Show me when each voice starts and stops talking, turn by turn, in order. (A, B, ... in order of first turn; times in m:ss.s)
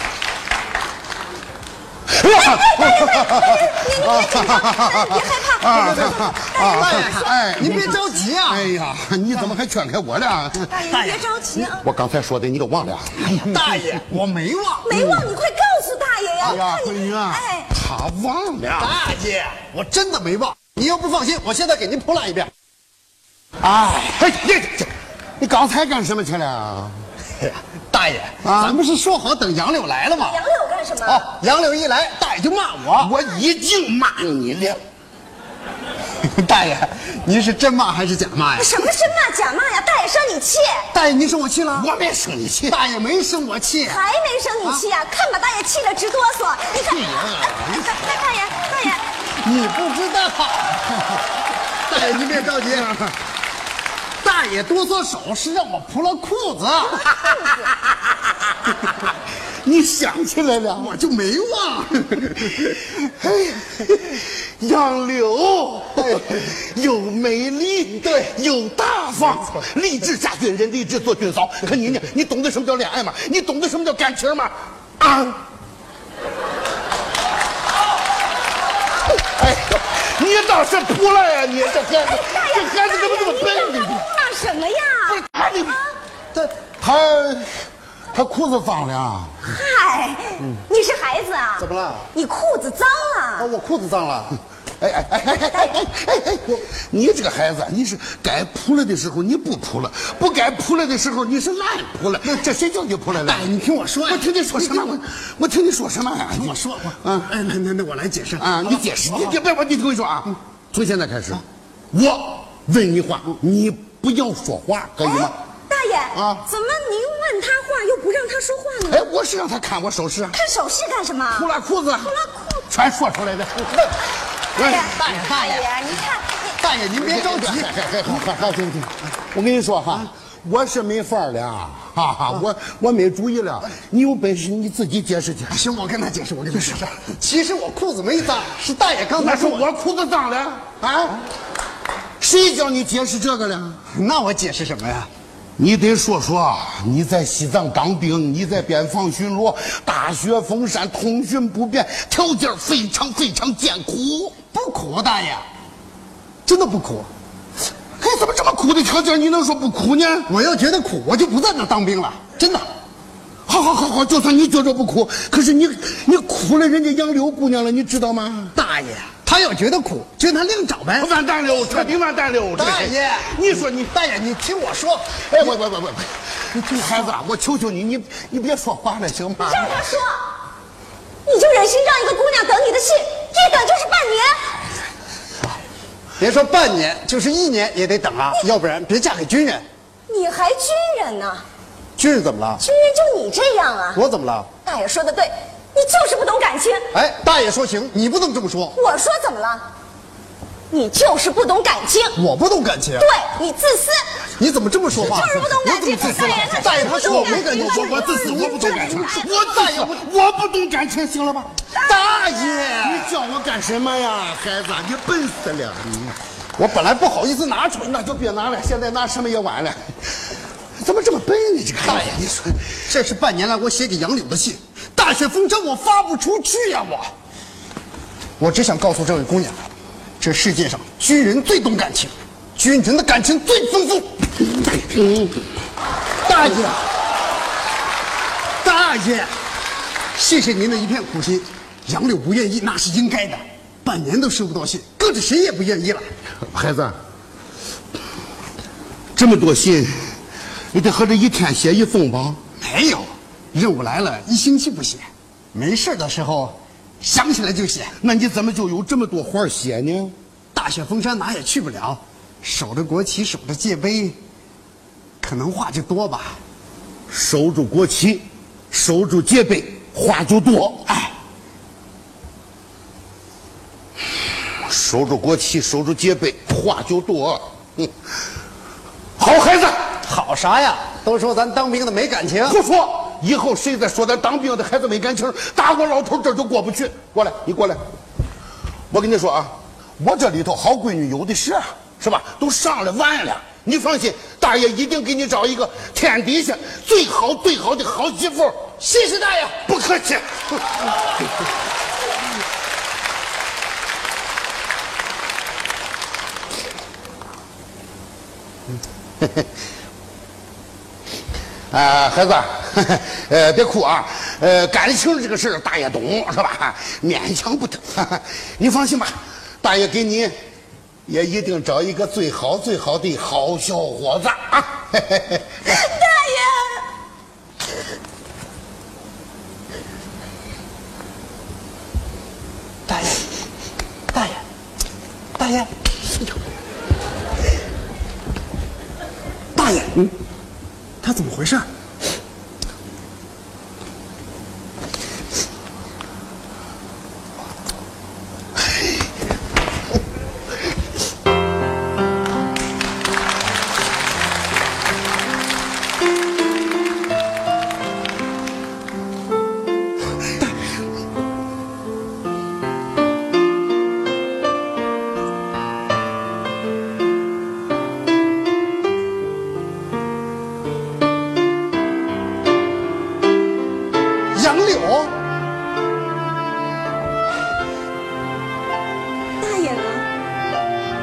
0:02.1-0:10.8 A
0:02.3-0:07.3 B
0:05.7-0:08.7 C
0:10.7-0:11.8 B
0:10.8-0:11.3 C
0:11.7-0:13.8 A
0:13.2-0:14.9 C
0:14.8-0:17.7 B
0:14.9-0:15.2 A
0:16.4-0:18.9 A
0:18.8-0:22.5 C
0:23.6-0:27.0 A
0:27.4-0:30.4 C
0:28.4-0:28.8 A
0:30.1-0:31.3 B
0:31.0-0:33.1 C
0:33.0-0:34.8 A
0:36.2-0:38.9 C
0:38.6-0:40.9 B
0:40.9-0:41.9 C
0:41.7-0:42.8 A
0:42.7-0:44.0 C
0:43.8-0:49.1 B
0:46.8-0:48.1 A
0:49.4-0:51.2 C
0:51.8-0:52.9 C
0:52.1-0:53.1 A
0:54.2-0:57.1 C
0:56.9-0:57.7 B
0:57.1-0:58.8 A
0:59.6-1:00.9 A
1:00.8-1:02.7 C
1:02.9-1:15.4 A
1:06.0-1:06.4 C
1:08.0-1:08.3 C
1:19.2-1:24.1 A
1:21.7-1:25.2 B
1:25.0-1:25.8 A
1:26.8-1:29.5 A
1:29.4-1:33.5 B
1:31.6-1:32.1 C
1:33.4-1:34.4 C
1:34.8-1:43.5 A
1:35.4-1:35.8 B
1:43.1-1:44.9 C
1:44.0-1:47.3 A
1:46.3-1:49.4 C
1:48.4-1:55.3 A
1:55.0-1:59.1 B
1:56.1-1:56.5 A
1:58.8-2:00.4 A
2:00.3-2:01.5 B
2:01.3-2:02.1 A
2:02.0-2:02.7 B
2:02.7-2:03.9 A
2:04.5-2:06.6 B
2:04.6-2:04.9 A
2:04.7-2:06.0 C
2:06.6-2:07.7 C
2:07.0-2:15.6 A
2:15.5-2:19.7 C
2:19.2-2:21.2 A
2:22.2-2:23.8 A
2:23.9-2:25.1 C
2:25.6-2:34.4 A
2:34.5-2:35.4 C
2:36.4-2:37.1 C
2:38.0-2:40.3 A
2:40.3-2:42.7 C
2:43.4-2:48.6 A
2:48.5-2:51.1 C
2:51.0-2:53.7 A
2:51.7-2:51.9 C
2:52.5-2:55.5 C
2:55.2-3:00.0 A
2:56.5-2:57.2 C
2:59.4-3:00.3 B
3:01.2-3:04.4 B
3:06.2-3:09.6 C
3:10.1-3:11.4 B
3:12.0-3:12.6 C
3:12.6-3:14.0 B
3:13.9-3:14.5 C
3:14.6-3:16.9 B
3:16.9-3:18.8 C
3:18.7-3:19.7 B
3:20.7-3:22.2 B
3:22.2-3:23.1 C
3:23.0-3:24.1 B
3:24.4-3:30.1 C
3:24.9-3:31.5 A
3:25.0-3:29.3 B
3:31.7-3:32.8 B
3:31.8-3:33.1 C
3:32.8-3:36.1 A
3:36.6-3:37.9 C
3:37.8-3:40.0 A
3:40.8-3:42.6 A
3:41.8-3:42.3 C
3:42.8-3:47.1 C
3:48.4-3:49.6 C
3:50.2-3:54.1 C
3:54.4-3:55.4 A
3:56.2-3:56.8 C
3:58.6-3:59.3 C
4:00.1-4:06.0 C
4:06.4-4:07.0 A
4:09.1-4:10.2 A
4:10.7-4:12.4 A
4:12.6-4:17.9 C
4:18.0-4:20.1 A
4:20.5-4:24.2 C
4:25.2-4:26.4 C
4:27.1-4:30.9 A
4:30.9-4:31.1 C
4:34.6-4:37.9 A
4:39.2-4:39.9 A
4:40.0-4:42.6 C
4:42.4-4:47.8 A
4:48.9-4:58.8 A
4:58.8-4:59.6 C
4:59.6-5:00.9 A
5:09.2-5:09.4 A
5:11.7-5:20.3 A
5:21.0-5:25.7 A
5:25.6-5:26.9 B
5:32.9-5:33.2 C
5:34.1-5:34.4 C
5:35.4-5:35.7 C
5:39.5-5:40.1 C
5:41.0-5:41.7 C
6:14.3-6:15.1 C
6:19.4-6:20.0 B